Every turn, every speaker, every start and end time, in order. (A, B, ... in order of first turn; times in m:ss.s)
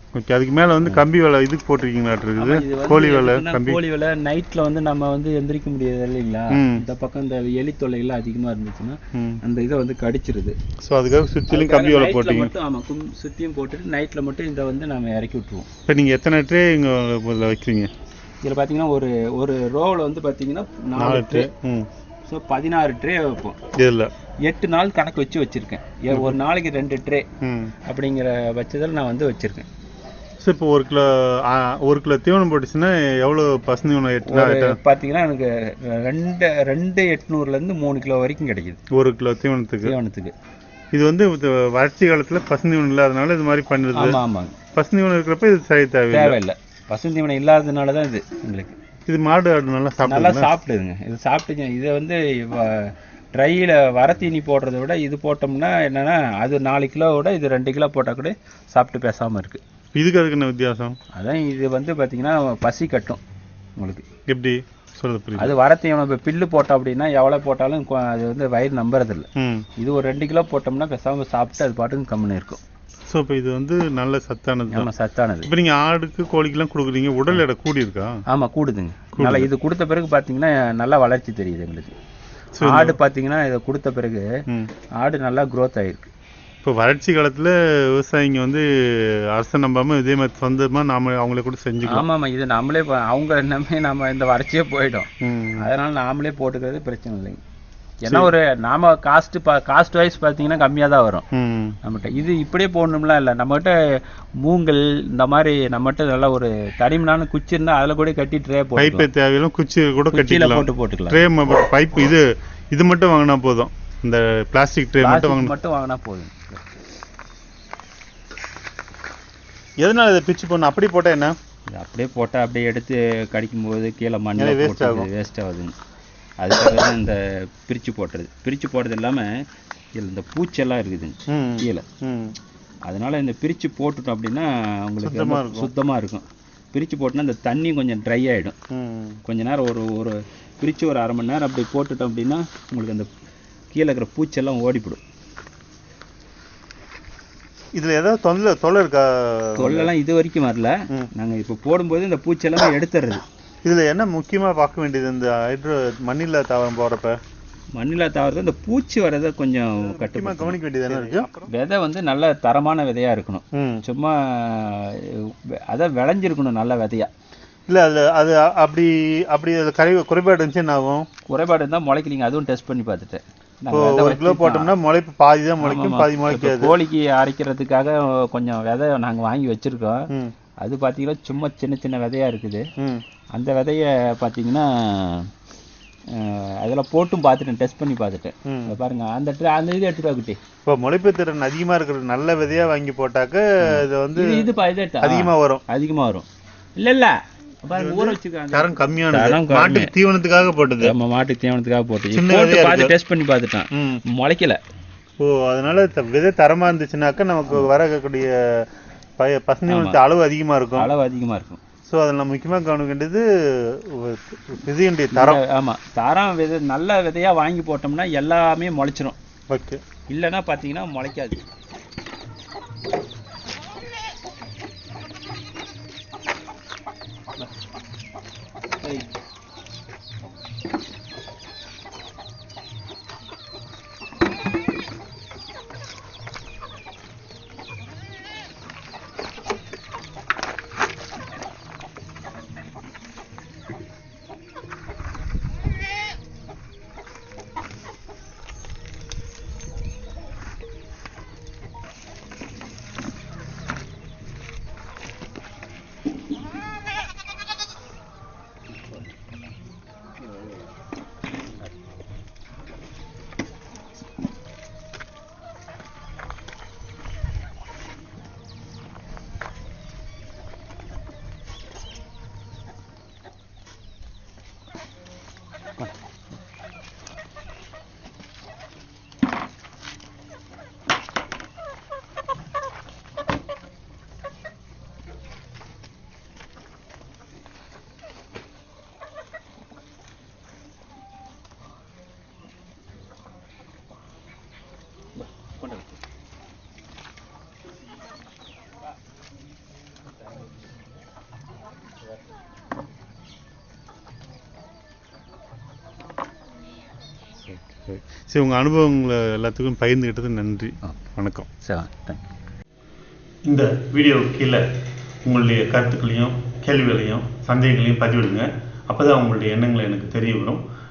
0:00.2-0:03.8 A
0:02.4-0:10.6 B
0:06.5-0:06.8 A
0:10.8-0:12.5 A
0:11.5-0:15.7 B
0:15.9-0:17.9 A
0:18.4-0:21.5 B
0:21.0-0:21.9 A
0:22.3-0:23.6 B
0:23.8-0:24.1 A
0:24.5-0:27.3 B
0:26.1-0:26.4 A
0:27.4-0:27.7 A
0:27.9-0:29.7 B
0:30.4-0:34.8 A
0:34.2-0:38.8 B
0:38.9-0:40.0 A
0:39.8-0:40.3 B
0:40.9-0:44.2 A
0:43.9-0:44.6 B
0:44.8-0:46.4 A
0:46.1-0:48.8 B
0:49.1-0:50.5 A
0:50.0-0:59.6 B
0:59.9-1:01.0 A
1:01.2-1:03.2 B
1:03.8-1:04.1 B
1:04.3-1:05.6 A
1:05.4-1:09.3 B
1:09.4-1:09.7 A
1:09.8-1:12.6 B
1:13.1-1:14.9 A
1:14.7-1:15.5 B
1:15.5-1:18.2 A
1:18.3-1:21.9 B
1:19.2-1:19.5 A
1:22.6-1:23.0 A
1:22.6-1:24.3 B
1:25.0-1:26.1 B
1:26.6-1:32.1 A
1:31.9-1:35.1 B
1:35.2-1:35.7 A
1:35.6-1:37.4 B
1:38.0-1:41.2 B
1:38.0-1:38.3 A
1:41.3-1:41.8 A
1:41.8-1:49.1 B
1:48.8-1:55.5 A
1:50.1-1:51.3 B
1:55.0-1:56.7 B
1:59.8-2:01.3 A
2:01.7-2:05.8 B
2:04.4-2:05.1 A
2:06.4-2:09.4 B
2:10.0-2:11.9 B
2:11.3-2:12.4 A
2:12.9-2:18.6 B
2:15.0-2:15.7 A
2:18.7-2:19.2 A
2:19.3-2:23.1 B
2:23.7-2:25.0 B
2:27.7-2:29.9 A
2:29.6-2:33.2 B
2:33.6-2:37.2 A
2:37.8-2:47.1 B
2:39.8-2:41.5 A
2:43.6-2:43.8 A
2:47.7-2:51.1 A
2:51.3-2:54.8 B
2:53.7-2:56.7 A
2:55.6-3:00.1 B
3:00.6-3:02.7 B
3:03.3-3:05.3 B
3:06.1-3:10.4 B
3:08.5-3:08.7 A
3:10.6-3:14.5 A
3:13.6-3:16.3 B
3:15.0-3:15.6 A
3:16.8-3:19.9 B
3:17.7-3:20.9 A
3:20.8-3:24.6 B
3:22.1-3:23.0 A
3:23.7-3:24.0 A
3:25.2-3:28.7 A
3:29.2-3:30.9 A
3:29.7-3:30.0 B
3:30.8-3:31.6 B
3:31.9-3:35.4 A
3:35.1-3:39.2 B
3:39.5-3:39.8 A
3:40.1-3:41.4 B
3:48.8-3:49.1 B
4:55.6-4:56.0 B
5:07.5-5:08.0 B
5:08.2-5:11.5 A
5:11.6-5:12.3 B
5:13.5-5:14.6 A
5:15.2-5:20.6 A